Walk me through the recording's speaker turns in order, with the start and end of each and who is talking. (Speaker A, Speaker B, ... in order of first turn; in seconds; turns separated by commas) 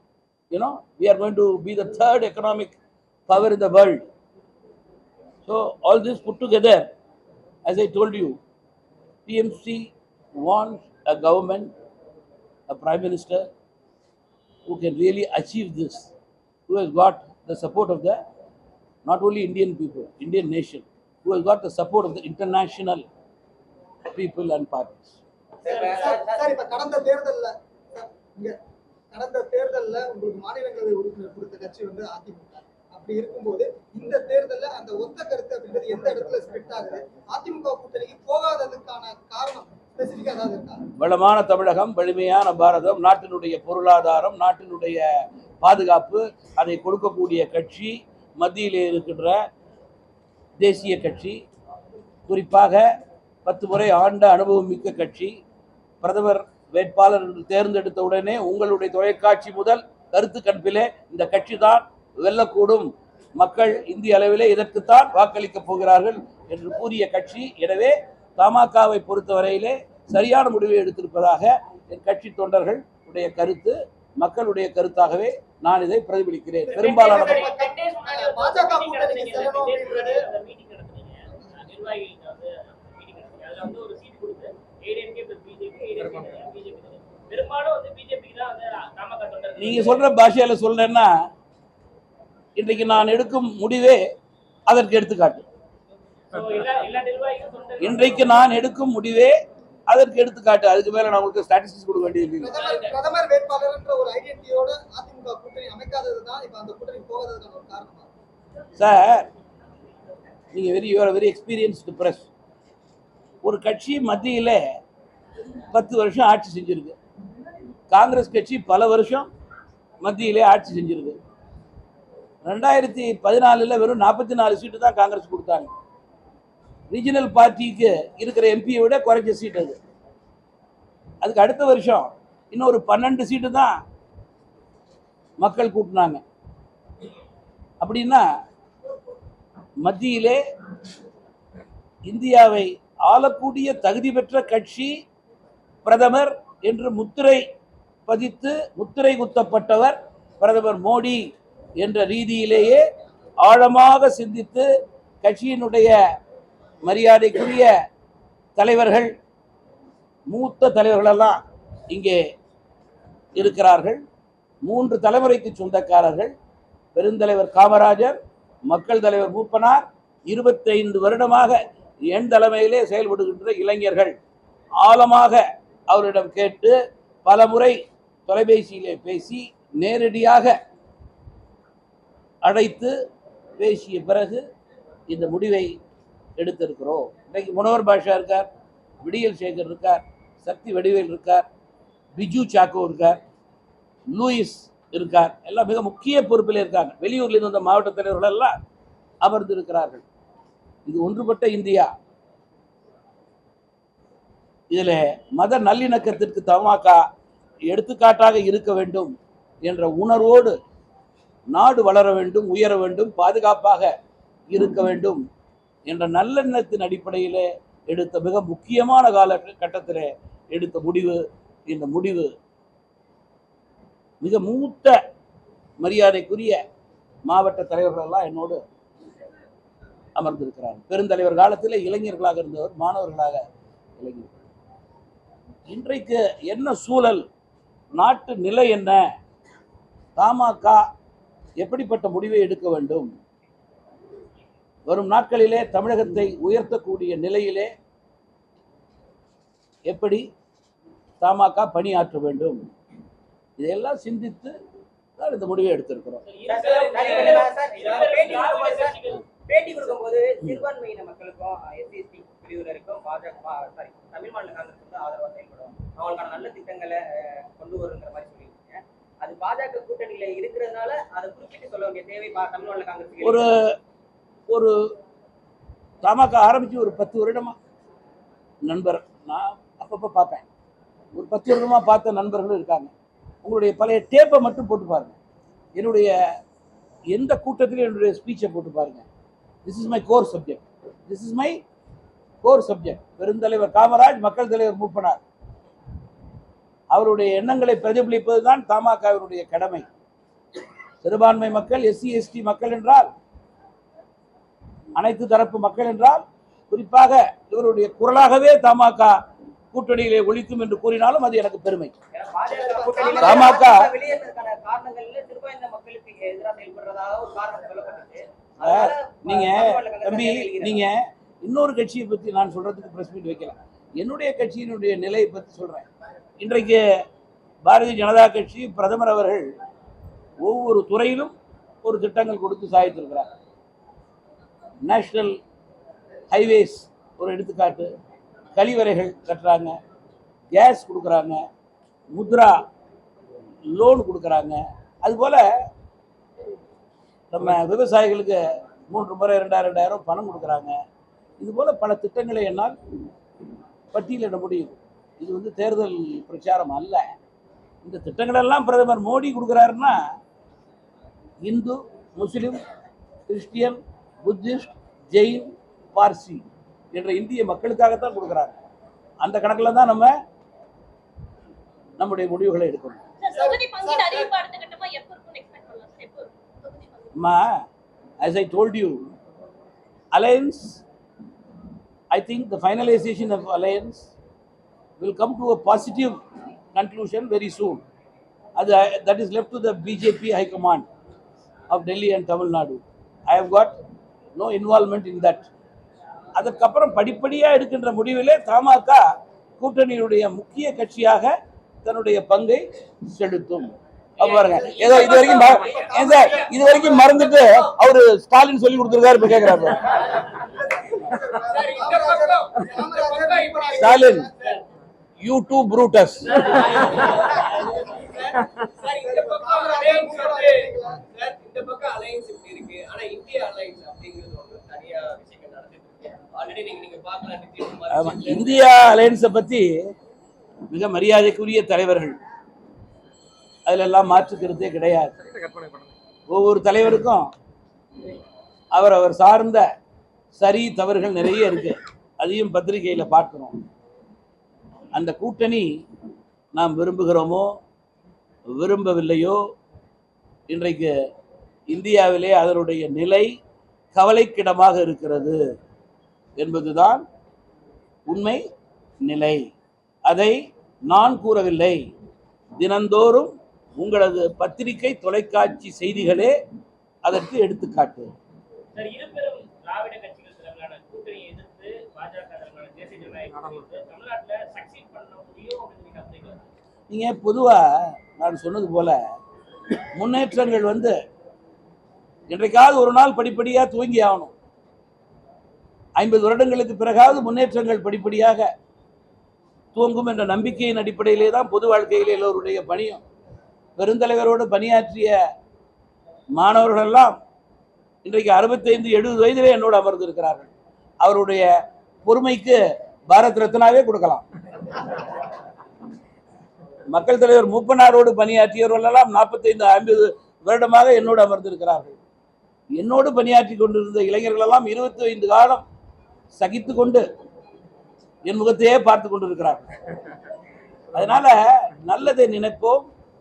Speaker A: 0.5-2.8, Speaker A: 3.3-4.1, Speaker A: 5.5-6.9, Speaker A: 7.7-8.4, Speaker A: 9.3-11.7, Speaker A: 12.7-13.5, Speaker A: 14.7-16.1, Speaker A: 16.7-18.2, Speaker A: 19.1-23.1, Speaker A: 24.1-25.2, Speaker B: 25.6-26.5, Speaker C: 25.6-28.6, Speaker C: 29.1-40.9, Speaker A: 41.0-45.1, Speaker A: 45.6-49.5, Speaker A: 50.6-51.4, Speaker A: 52.3-52.9, Speaker A: 53.5-55.4, Speaker A: 56.0-77.5, Speaker C: 76.7-80.3, Speaker D: 76.7-90.1, Speaker A: 89.6-91.2, Speaker A: 92.6-94.0, Speaker A: 94.7-95.5, Speaker D: 96.3-98.3, Speaker A: 97.8-99.3, Speaker A: 99.9-102.6, Speaker C: 102.4-108.1, Speaker A: 108.8-109.3, Speaker A: 110.5-112.3, Speaker A: 113.4-114.7, Speaker A: 115.7-117.0, Speaker A: 117.9-119.3, Speaker A: 120.0-121.2, Speaker A: 122.5-125.7, Speaker A: 126.9-129.8, Speaker A: 131.2-133.8, Speaker A: 135.4-136.2, Speaker A: 137.8-138.3, Speaker A: 139.8-140.4, Speaker A: 142.1-144.9, Speaker A: 145.8-147.4, Speaker A: 148.1-152.8, Speaker A: 153.4-154.7, Speaker A: 155.2-156.0, Speaker A: 156.8-157.7, Speaker A: 158.6-159.2, Speaker A: 160.3-161.4, Speaker A: 161.9-162.3, Speaker A: 163.4-164.0, Speaker A: 164.7-166.3, Speaker A: 166.9-171.6, Speaker A: 172.1-174.2, Speaker A: 174.8-180.6, Speaker A: 182.4-182.9, Speaker A: 183.6-184.5, Speaker A: 185.1-185.8, Speaker A: 186.4-188.5, Speaker A: 189.0-191.5, Speaker A: 192.2-193.2, Speaker A: 194.1-198.6, Speaker A: 199.2-200.1, Speaker A: 200.9-201.9, Speaker A: 204.7-207.0, Speaker A: 207.7-209.1, Speaker A: 209.7-210.6, Speaker A: 211.5-213.9, Speaker A: 214.5-215.2, Speaker A: 215.9-222.3, Speaker A: 224.2-225.0, Speaker A: 225.8-226.6, Speaker A: 227.3-228.6, Speaker A: 230.2-233.4, Speaker A: 234.0-234.3, Speaker A: 235.7-237.3, Speaker A: 237.9-239.1, Speaker A: 240.2-240.8, Speaker A: 241.6-243.1, Speaker A: 244.9-247.7, Speaker A: 249.9-250.3, Speaker A: 251.2-252.7, Speaker A: 253.6-254.6, Speaker A: 255.2-256.2, Speaker D: 256.3-259.2, Speaker B: 256.5-273.5, Speaker A: 273.2-273.8, Speaker A: 274.5-274.8, Speaker A: 276.0-277.6, Speaker A: 278.7-280.5, Speaker A: 281.1-282.9, Speaker A: 283.4-285.1, Speaker A: 285.8-286.1, Speaker A: 287.1-289.1, Speaker A: 289.6-291.6, Speaker A: 292.4-295.2, Speaker A: 296.9-299.9, Speaker A: 301.0-303.1, Speaker A: 305.0-309.2, Speaker A: 309.7-311.9, Speaker B: 312.1-320.8, Speaker C: 312.5-313.7, Speaker A: 313.2-313.9, Speaker A: 318.6-325.9, Speaker A: 326.4-326.9, Speaker A: 327.6-329.5, Speaker A: 330.4-333.3, Speaker A: 334.9-335.4, Speaker A: 336.3-337.9, Speaker A: 338.6-339.8, Speaker A: 340.5-341.5, Speaker A: 342.1-342.6, Speaker A: 343.7-345.5, Speaker A: 347.3-350.8, Speaker A: 351.4-352.8, Speaker A: 353.9-357.1, Speaker A: 357.8-360.0, Speaker A: 361.4-362.6, Speaker A: 363.3-368.6, Speaker A: 369.2-370.1, Speaker A: 372.0-373.0, Speaker E: 373.2-377.1, Speaker C: 373.3-374.3, Speaker A: 377.2-377.6, Speaker A: 378.2-379.1, Speaker A: 380.1-380.8, Speaker A: 382.1-384.1, Speaker A: 385.0-386.2, Speaker A: 386.8-387.8, Speaker A: 388.6-390.9, Speaker A: 391.7-393.8, Speaker A: 394.4-395.5, Speaker A: 396.4-399.0, Speaker A: 399.6-410.1, Speaker F: 404.2-407.5, Speaker C: 404.4-407.7, Speaker C: 409.9-414.6, Speaker F: 411.4-414.6, Speaker A: 413.8-414.3, Speaker A: 415.2-416.7, Speaker F: 416.3-428.7, Speaker C: 419.0-421.0, Speaker A: 427.9-429.9, Speaker A: 430.7-432.2, Speaker A: 433.7-435.3, Speaker A: 436.3-437.3, Speaker A: 438.8-439.7, Speaker A: 440.4-443.6, Speaker A: 444.9-445.7, Speaker A: 446.6-447.5, Speaker A: 448.6-449.4, Speaker A: 450.5-450.9, Speaker A: 451.7-453.4, Speaker A: 453.9-455.4, Speaker A: 456.4-457.1, Speaker A: 458.1-458.4, Speaker A: 459.0-459.5, Speaker A: 460.1-461.8, Speaker A: 462.6-466.4, Speaker A: 467.1-468.1, Speaker D: 468.8-476.4, Speaker A: 476.9-479.0, Speaker A: 479.7-481.0, Speaker A: 482.3-484.3, Speaker A: 486.0-488.5, Speaker A: 489.7-493.0, Speaker A: 493.8-495.2, Speaker A: 496.4-497.2, Speaker A: 498.0-500.5, Speaker A: 501.0-501.5, Speaker A: 502.1-504.2, Speaker A: 506.9-512.0, Speaker A: 512.8-515.6, Speaker A: 516.4-517.1, Speaker A: 518.3-519.8, Speaker A: 520.9-522.9